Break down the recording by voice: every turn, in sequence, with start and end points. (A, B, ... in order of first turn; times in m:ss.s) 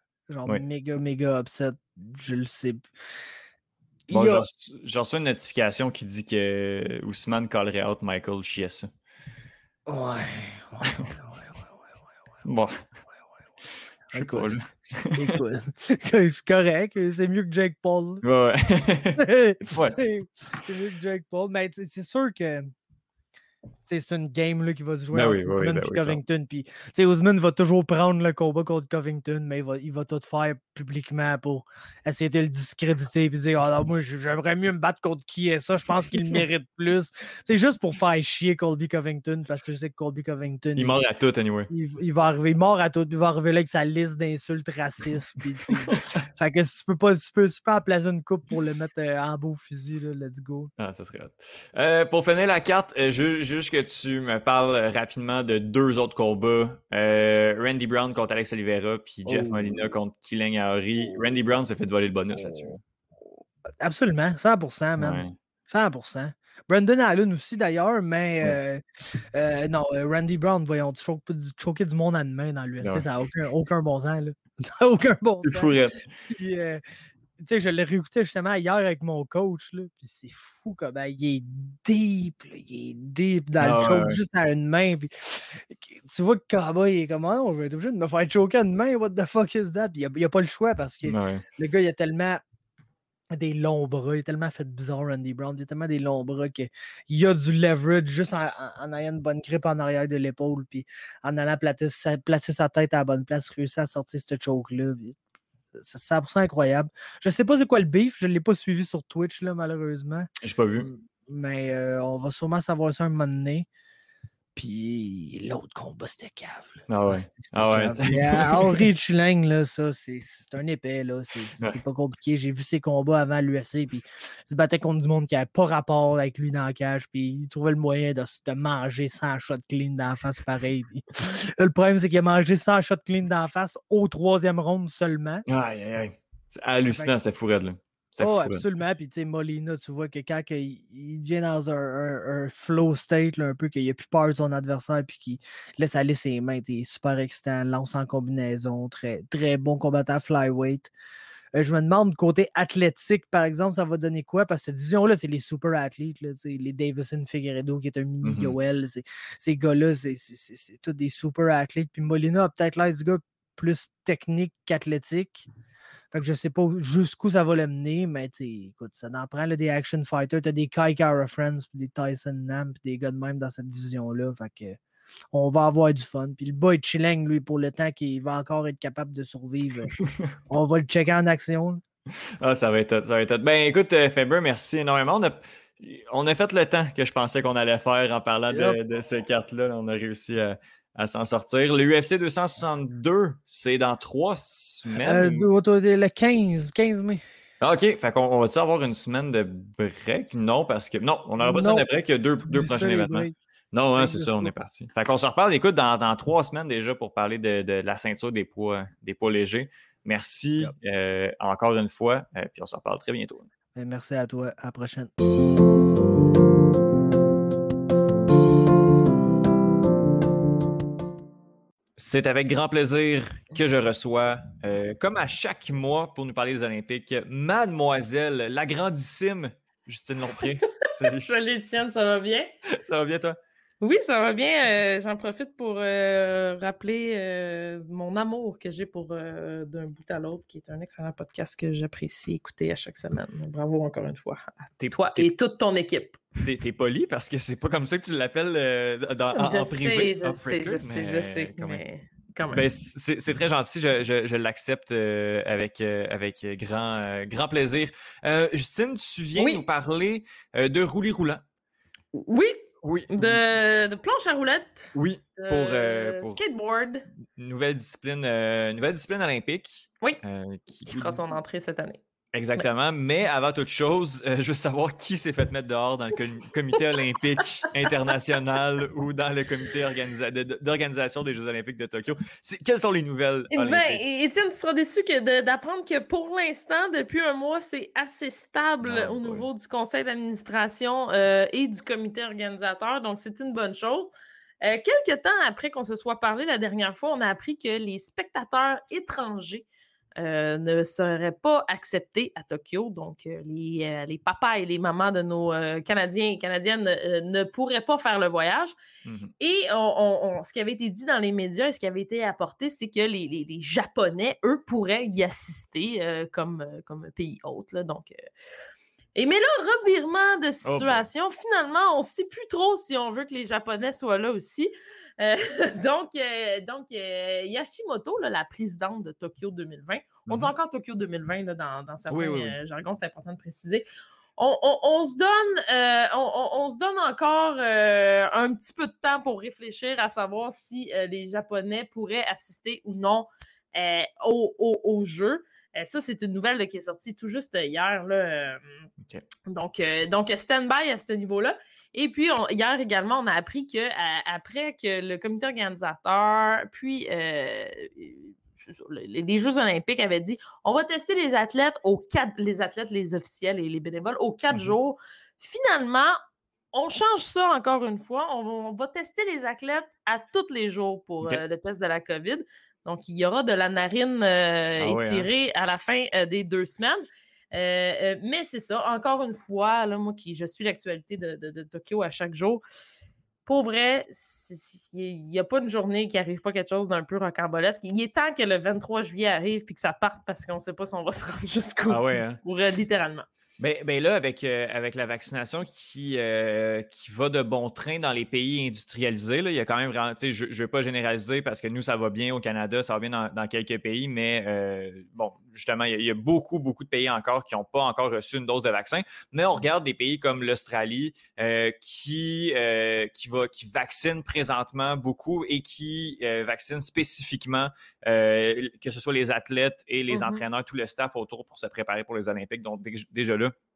0:00.3-0:02.8 A
0:04.1-0:04.4 A
0:04.1-0:08.9 B
0:09.8-0:11.5 A
0:12.4-0:12.8 B
0:14.1-0:14.6 A
0:14.1-0:15.4 B
0:15.2-0:18.2 A
0:18.2-0:20.0 B
0:19.2-0:22.7 A
0:23.9-0:41.0 A
0:25.1-0:26.2 B
0:40.7-0:41.7 B
0:41.7-0:50.7 A
0:50.8-1:02.8 B
0:59.3-0:59.8 A
1:03.8-1:08.8 A
1:05.0-1:05.3 B
1:09.3-1:15.7 A
1:12.8-1:13.1 B
1:15.4-1:16.1 B
1:16.3-1:16.8 A
1:17.4-1:32.4 A
1:23.6-1:24.2 B
1:31.0-1:31.4 B
1:33.3-1:45.2 A
1:45.8-1:53.7 A
1:50.4-1:50.9 B
1:54.5-2:15.4 A
1:56.9-1:58.9 B
2:15.5-2:18.6 B
2:18.2-2:30.9 A
2:31.5-2:45.4 A
2:38.2-2:38.6 B
2:46.1-2:54.8 A
2:55.3-2:59.9 A
3:00.5-3:01.8 A
3:02.4-3:15.5 B
3:08.5-3:08.8 A
3:15.0-3:17.2 A
3:17.6-3:33.5 B
3:21.4-3:21.8 A
3:22.4-3:23.3 A
3:23.9-3:24.5 A
3:33.7-3:35.1 A
3:42.0-3:51.4 B
3:50.4-3:52.5 C
3:52.8-3:53.4 B
3:53.8-4:06.4 C
4:04.8-4:05.3 B
4:06.4-4:11.8 B
4:09.3-4:12.6 C
4:12.5-4:21.4 B
4:19.4-4:19.6 C
4:22.1-4:27.1 C
4:22.8-4:23.4 B
4:24.9-4:26.4 B
4:27.4-4:31.2 B
4:30.9-4:32.0 C
4:32.3-4:44.0 B
4:43.5-4:59.6 C
4:48.8-4:49.5 B
5:00.2-5:08.7 C
5:09.0-5:09.3 B
5:09.4-5:18.1 C
5:19.1-5:33.8 C
5:20.6-5:21.1 B
5:30.3-5:30.5 B
5:32.1-5:32.6 B
5:34.4-5:48.6 C
5:49.5-6:06.2 C
6:06.7-6:22.6 C
6:14.8-6:15.3 B
6:23.4-6:33.2 C
6:31.9-6:32.4 B
6:33.6-7:03.5 B
7:00.1-7:00.4 C